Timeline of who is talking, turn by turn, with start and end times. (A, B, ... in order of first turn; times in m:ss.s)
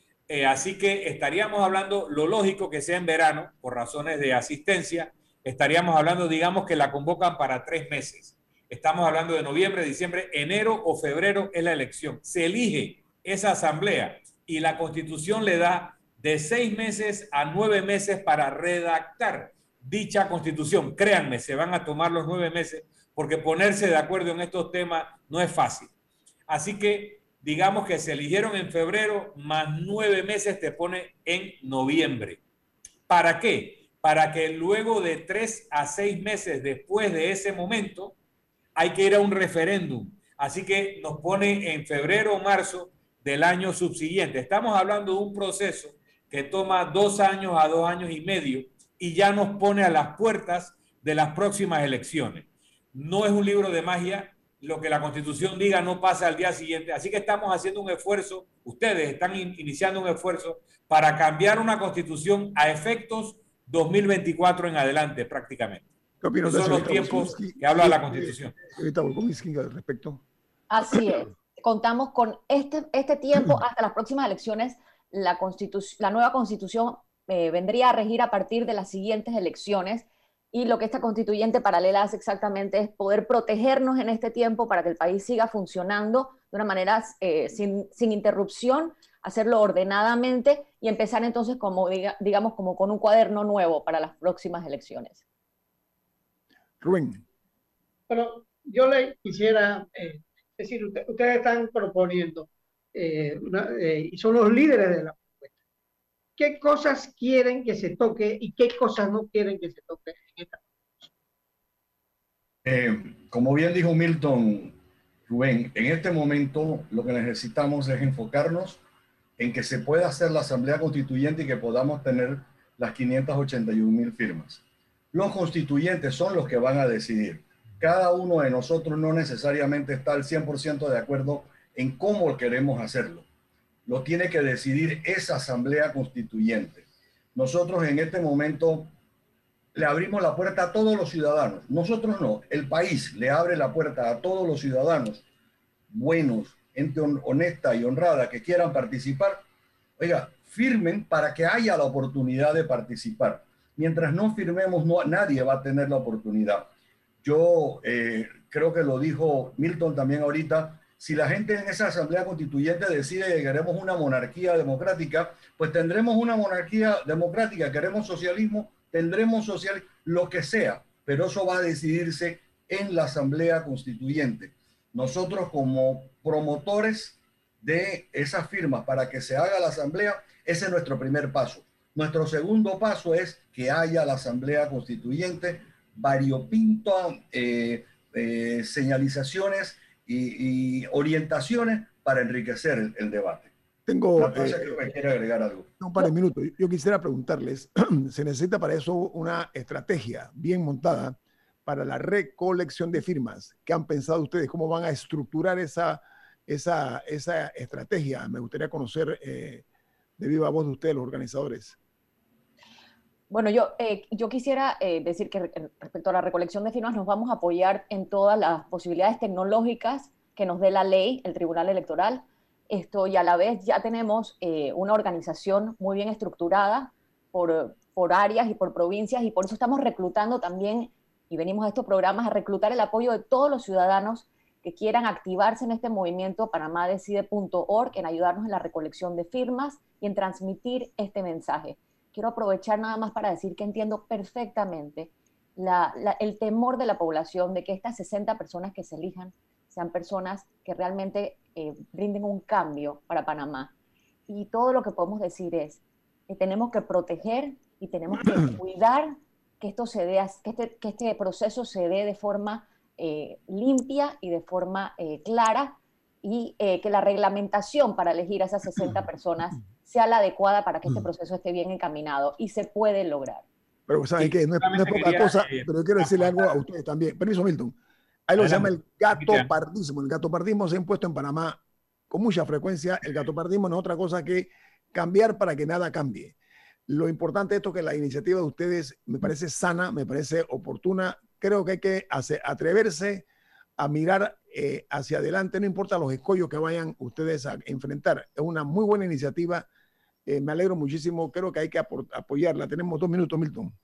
0:00.3-0:25.9 A
0:26.5-0:32.4 A
0:33.1-0:38.1 A
0:38.8-1:05.8 A
1:06.2-1:10.2 B
1:06.4-1:08.6 A
1:10.7-1:35.2 C
1:36.8-1:37.2 B
1:38.1-1:45.5 D
1:46.4-1:51.1 D
1:52.6-1:54.8 E
1:55.3-1:58.8 E
1:59.4-2:04.6 E
2:05.1-2:13.2 E
2:13.9-2:18.9 E
2:19.7-2:25.2 E
2:25.9-2:29.4 E
2:30.0-2:36.7 E
2:37.2-3:13.5 E
3:13.9-3:14.8 B
3:14.2-3:15.7 E
3:15.8-3:29.6 B
3:30.2-3:31.8 B
3:33.3-4:13.7 C
4:14.3-4:33.4 C
4:33.9-4:37.8 B
4:34.2-4:36.5 A
4:38.3-4:46.3 B
4:38.4-4:39.5 A
4:46.9-4:53.2 B
4:53.8-4:59.7 B
5:00.2-5:03.7 B